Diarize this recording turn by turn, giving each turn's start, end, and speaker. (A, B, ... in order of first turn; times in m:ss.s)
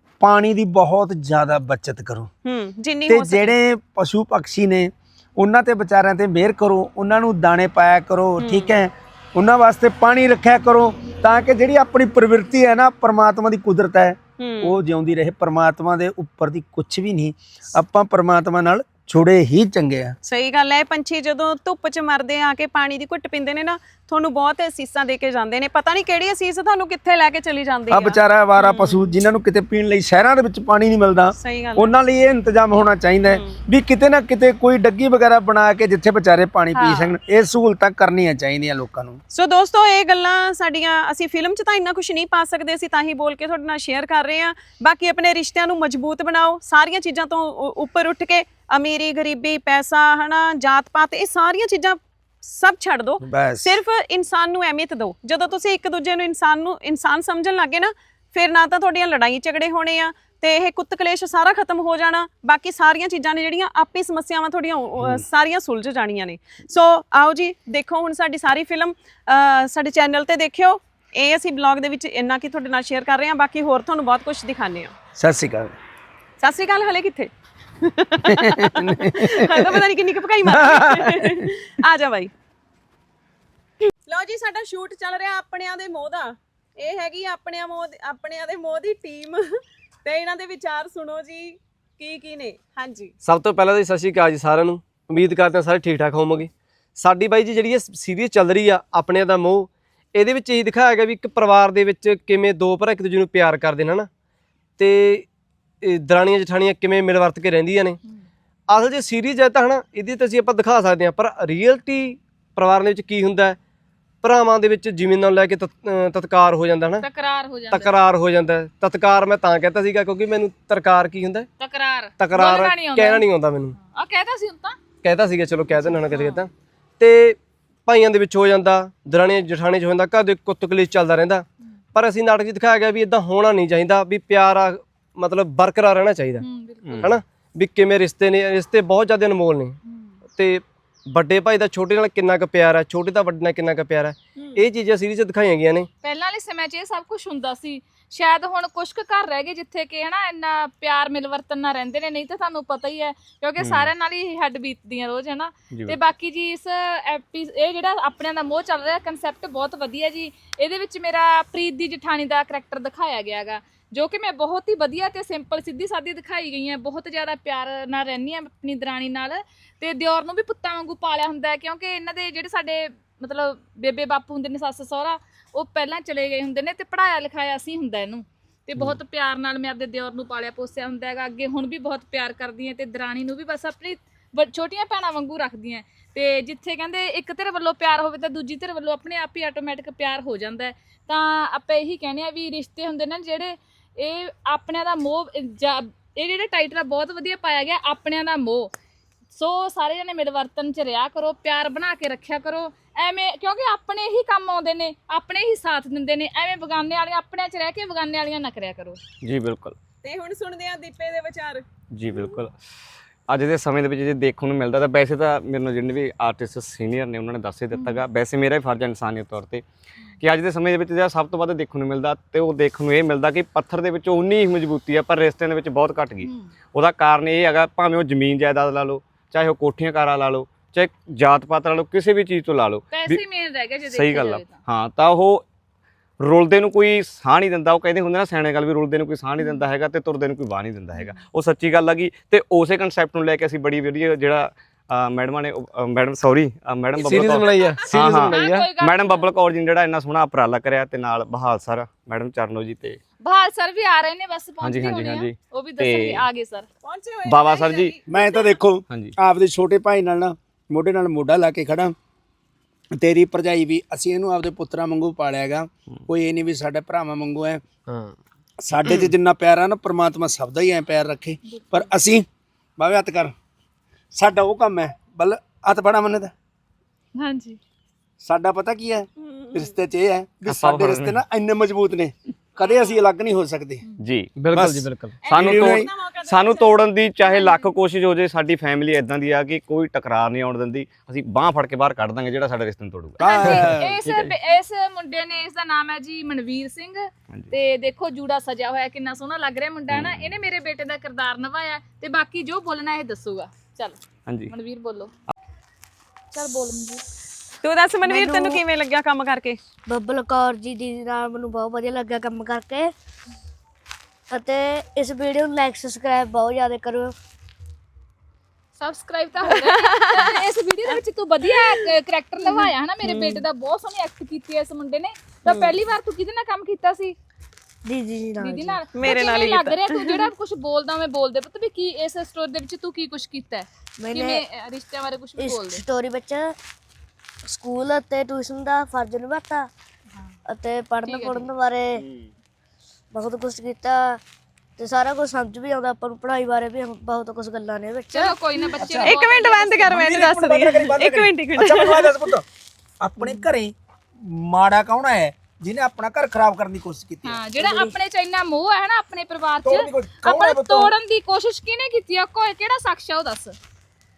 0:00.2-0:02.3 A
0:02.4-0:03.5 B
0:03.1-0:20.1 A
0:08.4-0:08.8 B
0:14.4-0:14.8 B
0:20.2-0:29.0 B
0:27.9-0:39.2 A
0:31.4-0:31.9 B
0:33.2-0:33.6 B
0:36.8-0:37.1 B
0:39.3-1:14.9 B
0:53.2-0:53.7 A
1:15.2-1:15.8 A
1:16.4-1:22.3 B
1:18.3-1:19.7 A
1:20.5-1:21.5 A
1:24.1-1:29.4 B
1:30.0-1:33.1 B
1:33.2-1:44.1 C
1:44.8-1:45.3 C
1:45.8-1:48.0 C
1:48.7-1:53.6 C
1:54.2-1:57.1 C
1:57.0-1:58.0 D
1:57.7-2:01.5 C
2:01.6-2:03.2 D
2:02.2-2:03.8 C
2:03.8-2:04.8 D
2:05.0-2:16.4 C
2:06.0-2:06.4 D
2:16.4-2:17.1 D
2:17.0-2:19.8 C
2:19.9-2:20.1 D
2:20.3-2:25.9 C
2:26.0-3:18.7 D
2:33.6-2:33.9 E
2:35.7-2:36.0 E
3:19.3-3:29.0 D
3:29.2-3:29.8 E
3:30.0-3:31.6 B
3:31.9-3:32.6 E
3:33.3-3:39.6 E
3:37.7-3:38.0 D
3:40.2-3:53.2 E
3:46.2-3:46.5 D
3:52.9-3:54.6 D
3:53.8-3:55.4 E
3:56.2-4:13.0 E
4:00.9-4:01.2 D
4:07.0-4:08.7 C
4:07.2-4:07.8 B
4:08.2-4:09.3 D
4:13.2-4:16.7 D
4:14.6-4:16.3 E
4:16.8-4:18.6 B
4:17.2-4:18.0 E
4:18.1-4:21.9 A
4:22.9-4:27.6 A
4:27.9-4:28.1 C
4:28.6-4:32.2 A
4:31.4-4:31.9 D
4:32.8-4:33.3 A
4:34.1-4:36.3 A
4:37.2-4:37.6 D
4:38.2-4:43.8 A
4:39.2-4:39.7 B
4:40.5-4:41.2 E
4:42.6-4:43.0 B
4:44.0-4:44.3 E
4:44.4-4:45.1 C
4:44.5-4:45.9 A
4:45.2-4:47.7 B
4:45.2-4:54.3 E
4:53.2-4:54.0 A
4:53.2-5:05.1 D
4:59.9-5:00.3 E
5:04.2-5:04.5 E
5:06.3-5:07.0 D
5:07.6-5:09.6 B
5:08.0-5:08.6 F
5:09.9-5:12.9 F
5:14.3-5:17.1 F
5:18.8-5:27.2 D
5:19.7-5:20.3 B
5:22.5-5:23.4 B
5:25.5-5:25.7 B
5:27.8-5:28.8 F
5:28.4-5:35.8 D
5:28.9-5:30.3 B
5:34.0-5:34.4 F
5:35.4-5:36.5 F
5:37.5-5:39.7 F
5:40.5-5:42.0 F
5:41.0-5:41.5 D
5:43.1-5:44.2 F
5:44.8-5:49.0 F
5:48.1-5:50.0 D
5:48.8-5:49.1 A
5:49.0-5:52.2 B
5:49.9-5:52.4 A
5:53.0-5:57.4 A
5:57.2-6:03.6 D
5:57.6-5:57.9 F
5:59.6-6:00.9 A